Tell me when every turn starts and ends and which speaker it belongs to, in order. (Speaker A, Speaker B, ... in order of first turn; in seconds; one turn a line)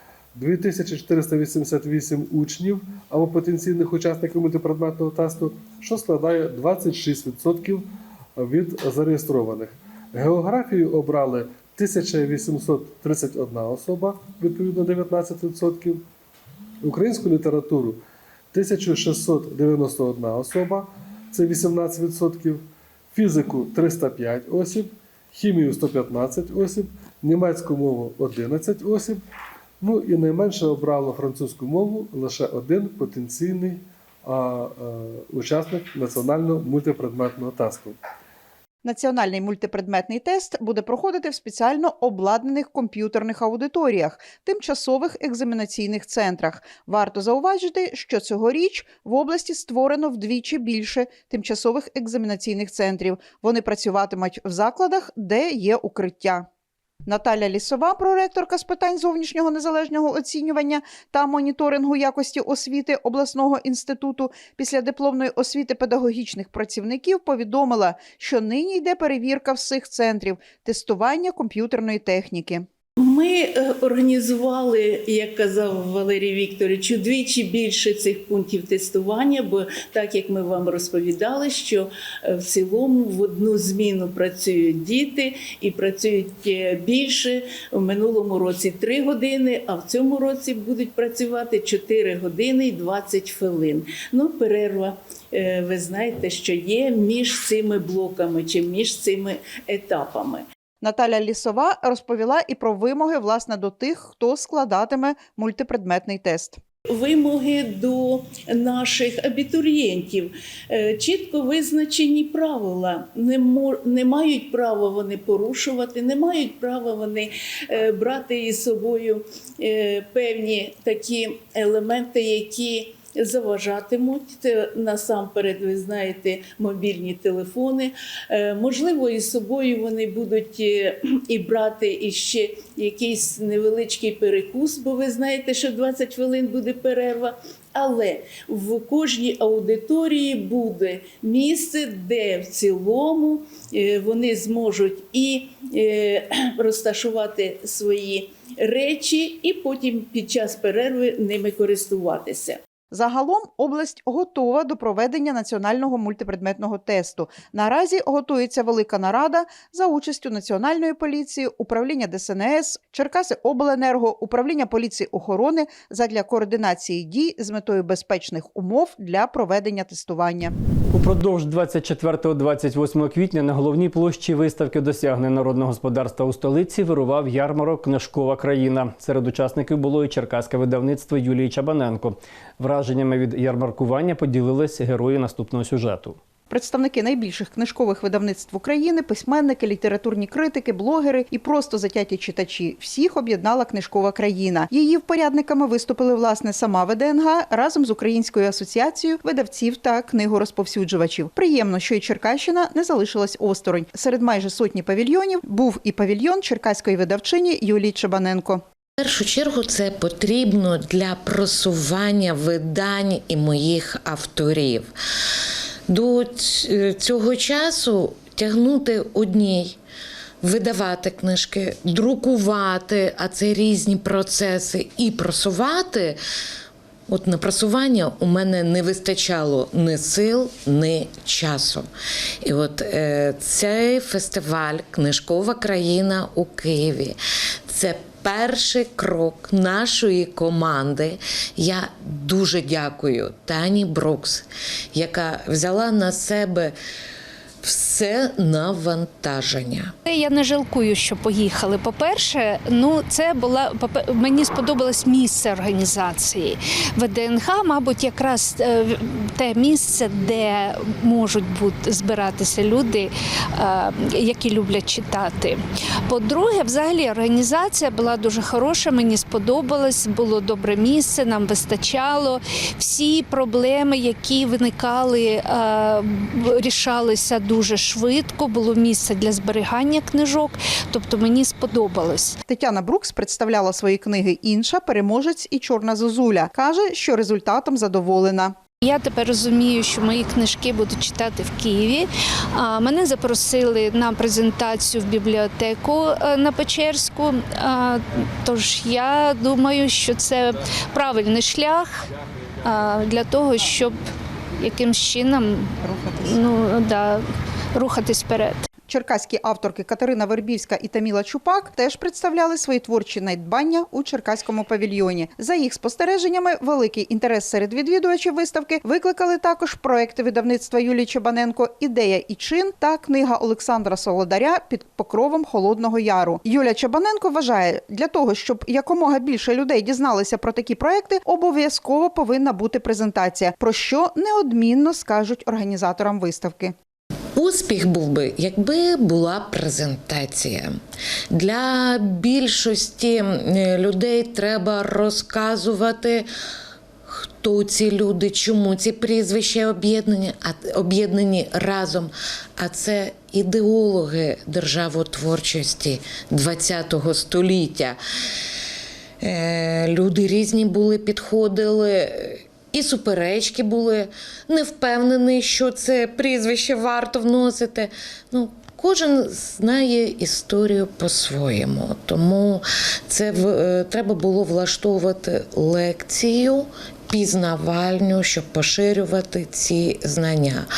Speaker A: 0.3-16.0
Speaker A: 16.8-18.0
Speaker A: 18.5-29.2
Speaker A: 29.8-38.0
Speaker B: 38.8-56.5
Speaker B: 57.1-72.7
Speaker C: 73.0-100.5
Speaker B: 100.8-106.6
Speaker C: 106.9-152.6
Speaker B: 152.9-170.5
Speaker D: 170.9-186.2
Speaker B: 186.5-208.6
Speaker E: 209.0-214.9
Speaker E: 215.9-219.8
Speaker E: 220.4-226.2
Speaker E: 227.1-231.9
Speaker E: 232.4-237.2
Speaker E: 237.7-246.7
Speaker E: 247.6-249.9
Speaker F: 250.1-282.4
Speaker B: 282.5-288.6
Speaker F: 288.8-302.1
Speaker F: 302.6-304.0
Speaker F: 304.6-307.2
Speaker B: 305.9-306.2
Speaker F: 307.8-308.6
Speaker B: 308.9-336.7
Speaker E: 337.4-340.8
Speaker E: 341.3-346.3
Speaker E: 347.1-358.0
Speaker E: 359.2-380.7